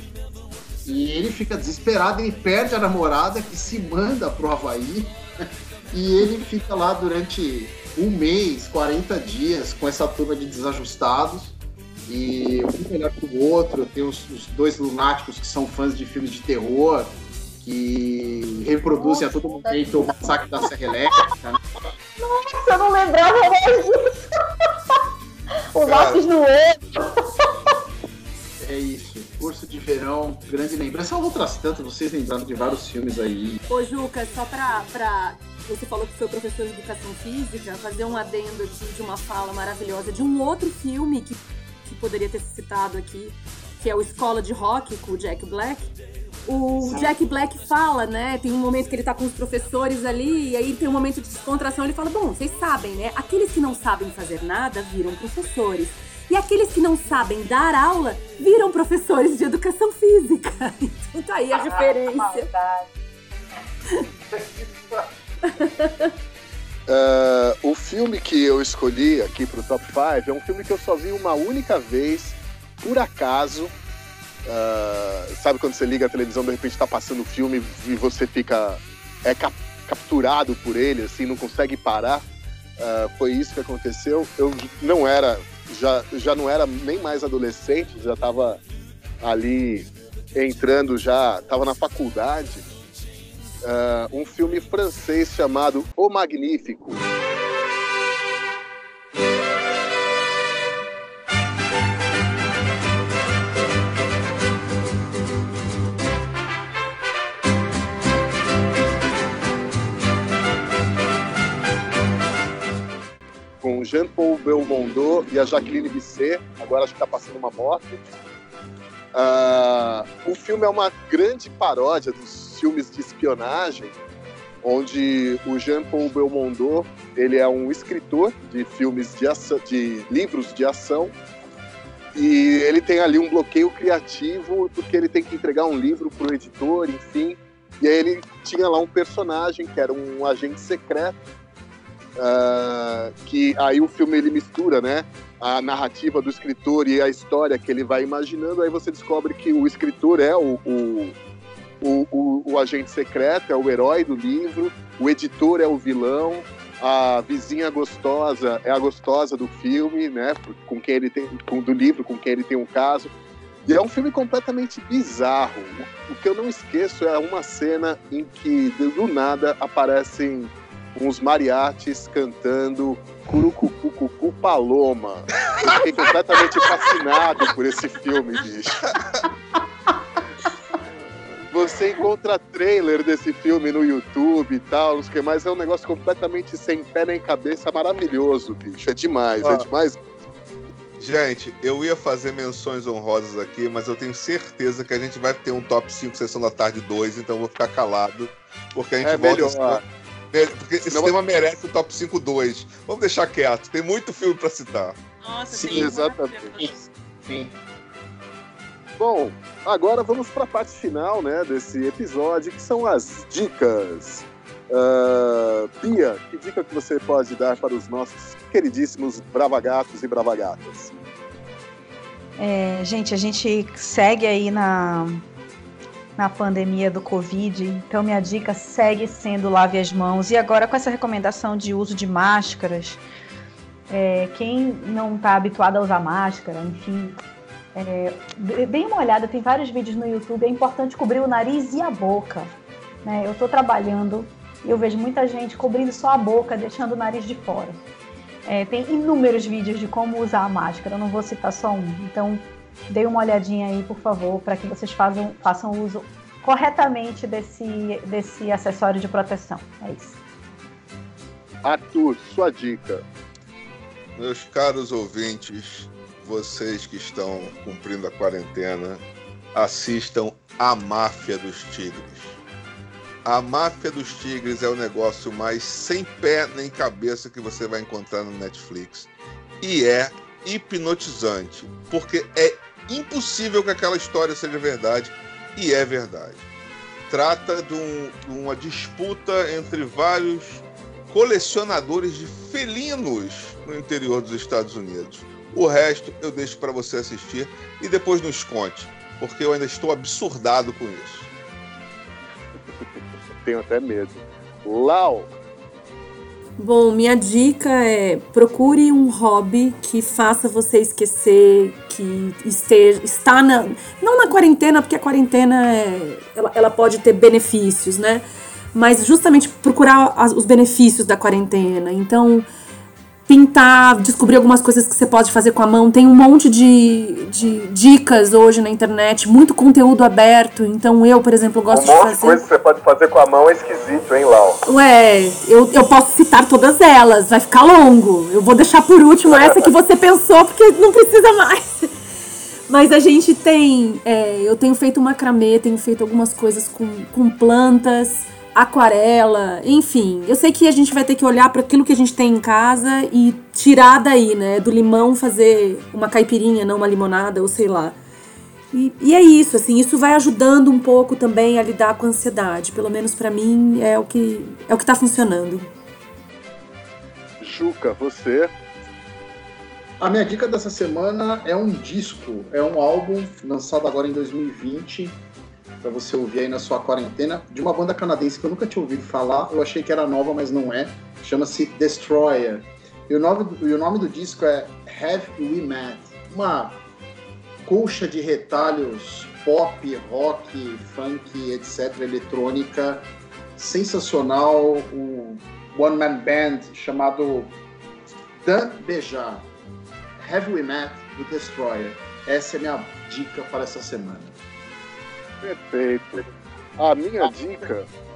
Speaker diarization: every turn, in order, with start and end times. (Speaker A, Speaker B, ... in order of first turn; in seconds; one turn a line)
Speaker A: 0.8-21.6
Speaker B: 19.0-19.3
Speaker B: 22.2-24.3
Speaker B: 25.7-27.1
Speaker C: 25.8-26.2
Speaker A: 28.6-33.6
Speaker D: 33.7-45.9
Speaker D: 46.5-62.5
Speaker B: 61.7-62.9
Speaker D: 65.5-66.1
Speaker E: 66.9-73.7
Speaker E: 74.5-82.2
Speaker E: 82.8-88.6
Speaker E: 89.2-92.7
Speaker E: 93.6-97.0
Speaker E: 113.6-118.0
Speaker E: 119.1-124.0
Speaker E: 124.6-131.2
Speaker E: 132.2-141.2
Speaker E: 142.2-151.2
Speaker E: 151.8-163.1
Speaker E: 163.7-178.9
Speaker C: 178.9-179.2
Speaker E: 181.5-190.0
Speaker C: 191.0-205.0
Speaker E: 199.0-199.8
Speaker E: 200.9-201.1
Speaker D: 205.2-206.8
Speaker A: 205.5-207.6
Speaker E: 205.7-206.6
Speaker E: 209.0-220.9
Speaker B: 222.4-225.2
Speaker B: 226.2-233.0
Speaker B: 233.9-237.2
Speaker B: 237.8-247.8
Speaker B: 248.5-260.2
Speaker E: 261.6-263.0
Speaker C: 264.2-272.4
Speaker C: 273.2-279.1
Speaker C: 279.6-286.4
Speaker C: 287.1-301.3
Speaker E: 303.4-305.3
Speaker D: 306.6-322.5
Speaker D: 323.3-332.4
Speaker E: 331.7-334.6
Speaker D: 334.7-341.9
Speaker D: 342.7-358.0
Speaker D: 358.7-365.7
Speaker E: 367.4-368.5
Speaker A: 370.0-375.2
Speaker A: 375.8-386.8
Speaker A: 387.6-397.6
Speaker A: 398.4-399.5
Speaker A: 400.2-404.4
Speaker E: 405.4-407.9